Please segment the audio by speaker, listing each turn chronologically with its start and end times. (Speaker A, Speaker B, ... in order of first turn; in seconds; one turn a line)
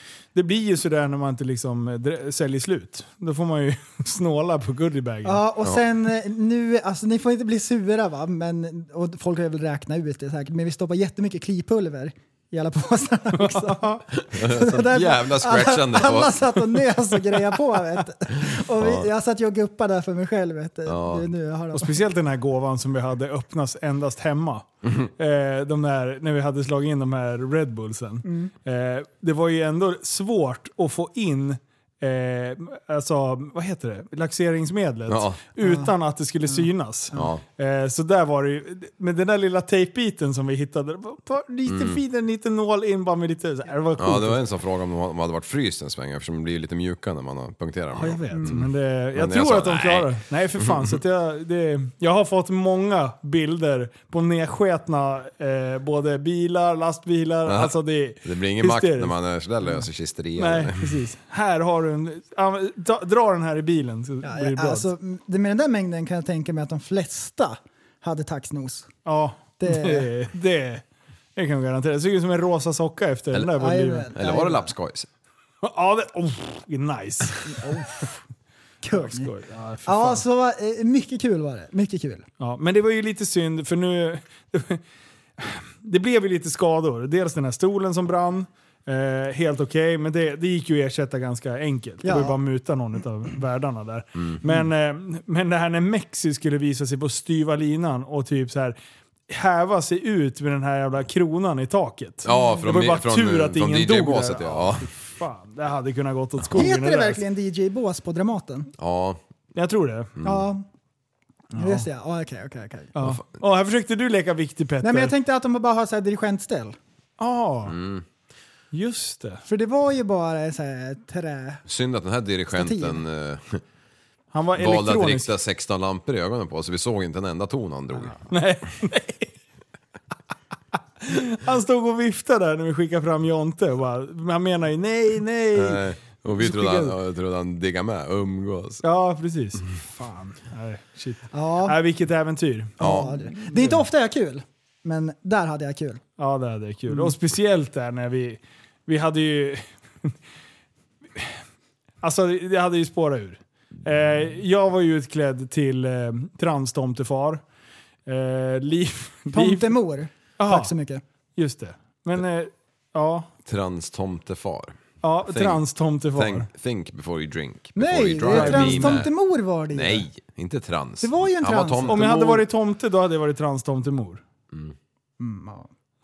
Speaker A: 0.3-5.4
Speaker B: 5.2-22.1
Speaker A: 13.4-13.8
Speaker C: 14.2-16.6
Speaker A: 17.5-17.8
Speaker C: 18.8-19.1
Speaker C: 20.9-21.3
Speaker A: 21.7-24.7
Speaker A: 25.2-44.4
Speaker B: 28.2-28.5
Speaker C: 35.1-35.4
Speaker B: 35.6-35.9
Speaker C: 37.1-37.4
Speaker C: 41.7-42.0
Speaker C: 44.0-51.0
Speaker A: 47.9-59.1
Speaker C: 57.5-61.0
Speaker A: 60.4-64.9
Speaker B: 64.2-68.9
Speaker A: 69.1-70.8
Speaker B: 69.6-70.1
Speaker A: 71.4-74.1
Speaker B: 73.6-74.7
Speaker C: 74.1-75.1
Speaker A: 75.6-78.1
Speaker B: 78.8-79.3
Speaker A: 78.9-80.2
Speaker B: 79.9-82.3
Speaker A: 82.4-84.8
Speaker A: 85.4-98.8
Speaker B: 92.0-92.4
Speaker A: 99.3-107.2
Speaker C: 102.2-104.9
Speaker B: 106.5-108.7
Speaker C: 108.8-109.2
Speaker A: 109.6-110.2
Speaker C: 110.2-110.5
Speaker B: 110.2-110.7
Speaker A: 111.5-111.8
Speaker B: 111.6-112.9
Speaker A: 113.0-115.2
Speaker B: 114.8-116.8
Speaker A: 117.2-117.8
Speaker C: 117.7-118.0
Speaker A: 118.7-119.4
Speaker B: 119.5-121.6
Speaker C: 121.7-123.6
Speaker B: 122.5-123.0
Speaker A: 124.3-125.3
Speaker C: 124.6-128.2
Speaker A: 128.3-129.3
Speaker A: 131.0-135.8
Speaker C: 135.6-138.8
Speaker A: 136.4-137.0
Speaker A: 138.8-143.8
Speaker B: 141.3-141.8
Speaker C: 142.8-143.1
Speaker B: 142.8-146.0
Speaker A: 146.2-150.1
Speaker B: 146.9-147.2
Speaker A: 152.0-157.4
Speaker A: 158.1-159.8
Speaker B: 159.3-161.0
Speaker A: 160.4-160.7
Speaker A: 161.4-163.3
Speaker C: 163.5-165.6
Speaker A: 165.0-166.5
Speaker C: 166.1-169.1
Speaker B: 167.8-170.1
Speaker A: 168.3-169.0
Speaker C: 169.7-172.4
Speaker B: 171.0-172.1
Speaker A: 171.9-174.2
Speaker B: 175.2-175.7